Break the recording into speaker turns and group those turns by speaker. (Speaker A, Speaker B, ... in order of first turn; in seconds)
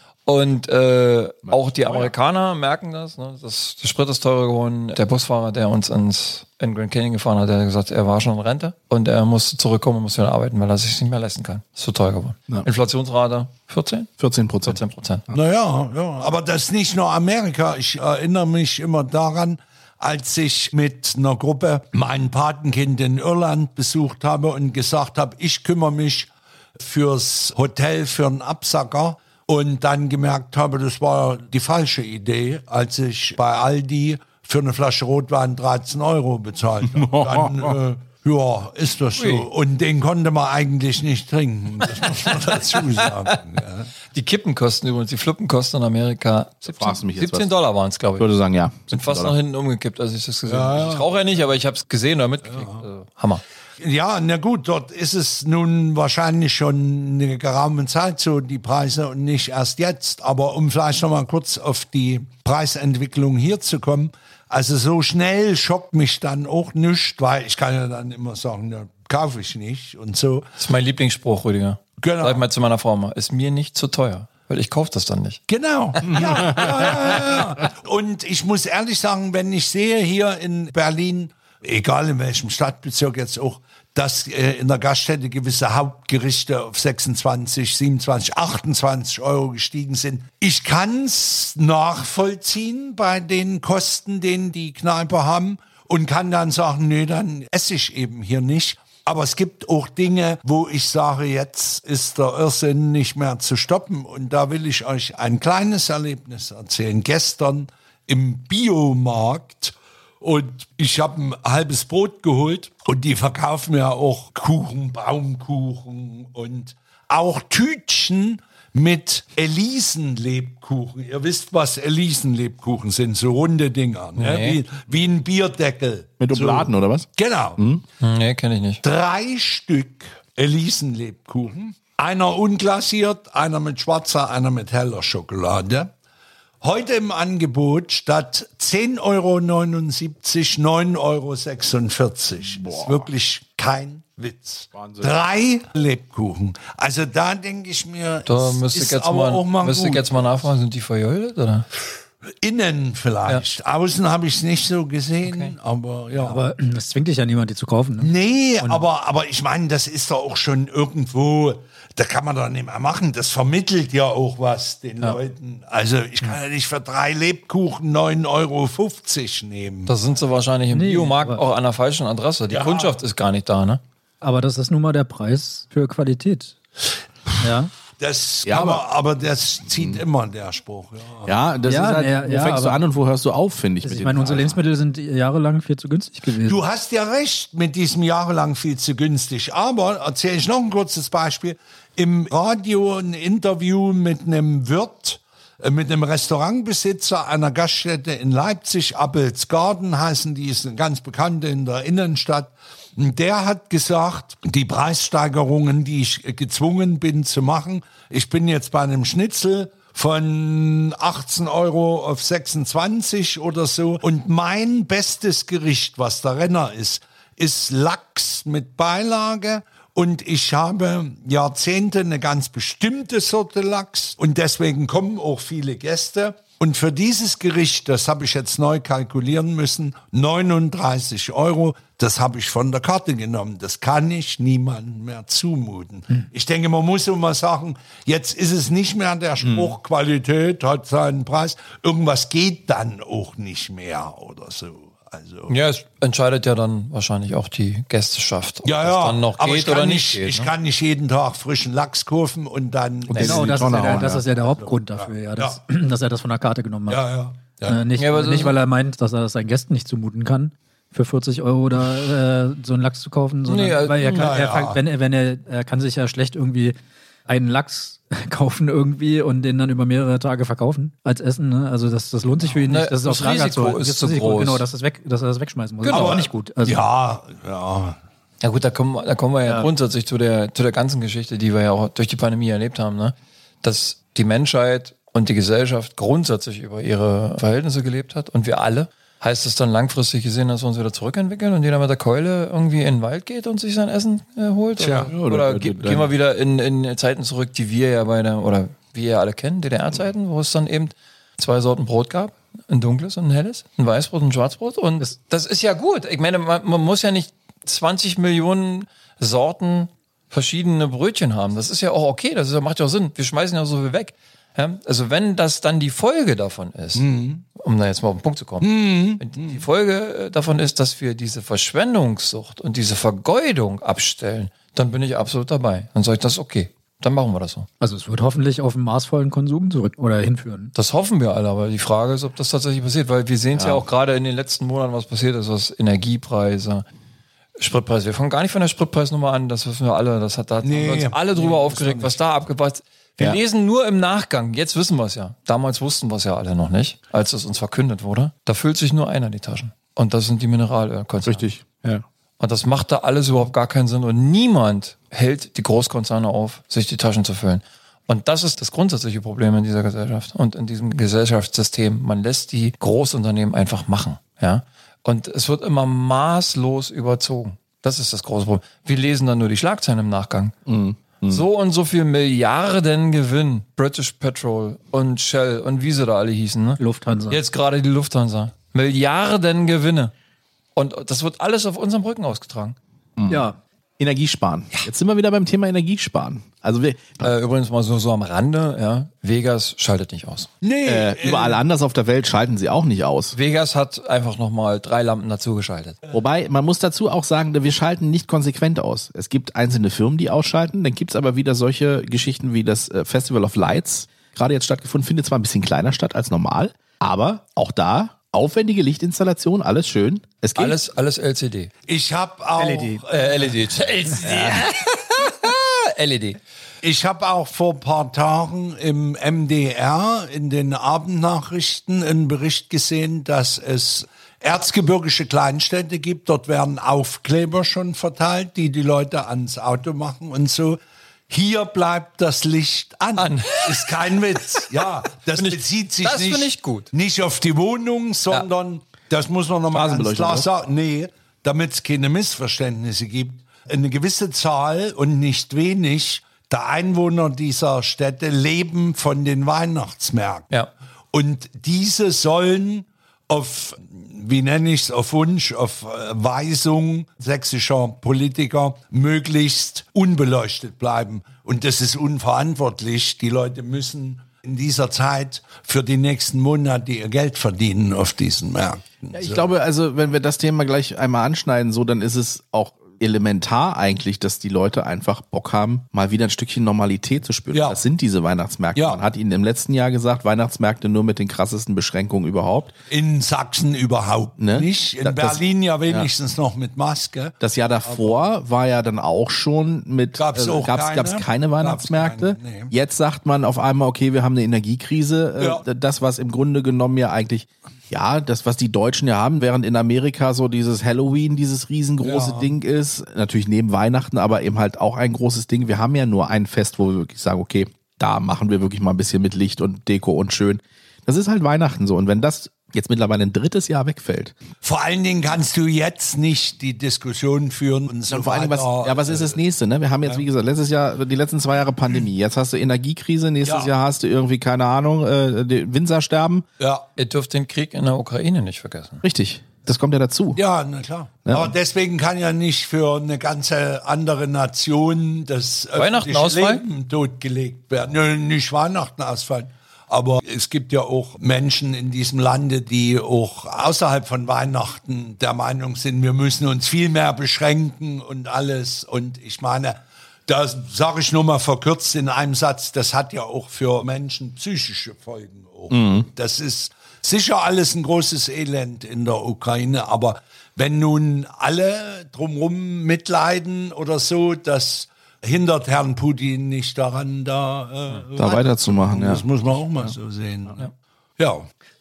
Speaker A: 0.2-14.1, 14.6-15.2, 39.1-39.5, 44.1-48.3, 48.9-53.4, 70.6-75.4, 76.0-77.2, 124.2-124.6, 128.0-128.8, 148.2-151.7, 155.2-155.5, 169.9-173.8, 245.5-250.5, 258.0-258.6, 263.5-264.3, 272.6-274.6, 275.8-276.2, 278.4-327.7, 330.7-336.8, 337.6-351.4, 352.4-370.5, 371.3-380.1, 380.7-382.8, 387.2-390.5, 393.3-396.0, 410.6-411.7, 413.1-416.4, 433.2-434.0, 435.3-436.9, 527.0-529.0, 535.8-536.6
Speaker B: 1.4-2.1, 14.2-14.8, 36.9-37.7, 46.7-47.5, 48.2-49.3, 76.1-76.5, 126.2-127.8, 142.5-143.1, 144.7-145.1, 178.4-178.8, 179.7-180.0, 181.2-184.6, 239.4-239.7, 253.1-254.2, 295.0-296.1, 333.5-333.9, 351.2-352.0, 370.7-371.4, 383.2-383.5, 384.0-387.3, 390.8-393.4, 396.1-410.8, 414.2-414.6, 439.7-440.5, 469.1-482.7, 484.4-486.1, 487.4-514.3, 518.1-526.4, 529.0-530.4, 531.2-531.5, 555.7-556.0, 568.1-569.2
Speaker C: 15.3-43.9, 50.5-51.1, 52.5-52.8, 53.8-70.5, 72.0-72.4, 75.5-127.6, 128.8-135.9, 136.6-150.4, 152.4-156.4, 158.0-169.9, 172.5-173.0, 178.0-181.3, 186.4-245.5, 248.6-255.6, 256.9-257.8, 264.1-264.8, 275.9-278.0, 294.8-295.1, 316.9-317.4, 318.6-319.6, 340.6-342.2, 390.6-391.6, 411.9-413.7, 416.8-430.8, 431.3-450.5, 451.1-469.5, 477.5-477.8, 478.7-479.0, 482.9-488.2, 490.2-492.7, 495.4-495.6, 502.0-502.5, 514.6-519.4, 523.4-523.7, 526.6-526.9, 530.3-571.5
Speaker D: 156.2-158.8, 170.7-171.4, 174.2-176.5, 177.4-177.7, 181.7-182.8, 183.8-186.6, 253.1-257.0, 257.6-266.8, 267.3-276.8, 327.8-330.7, 376.8-377.4, 383.3-383.6, 412.6-413.0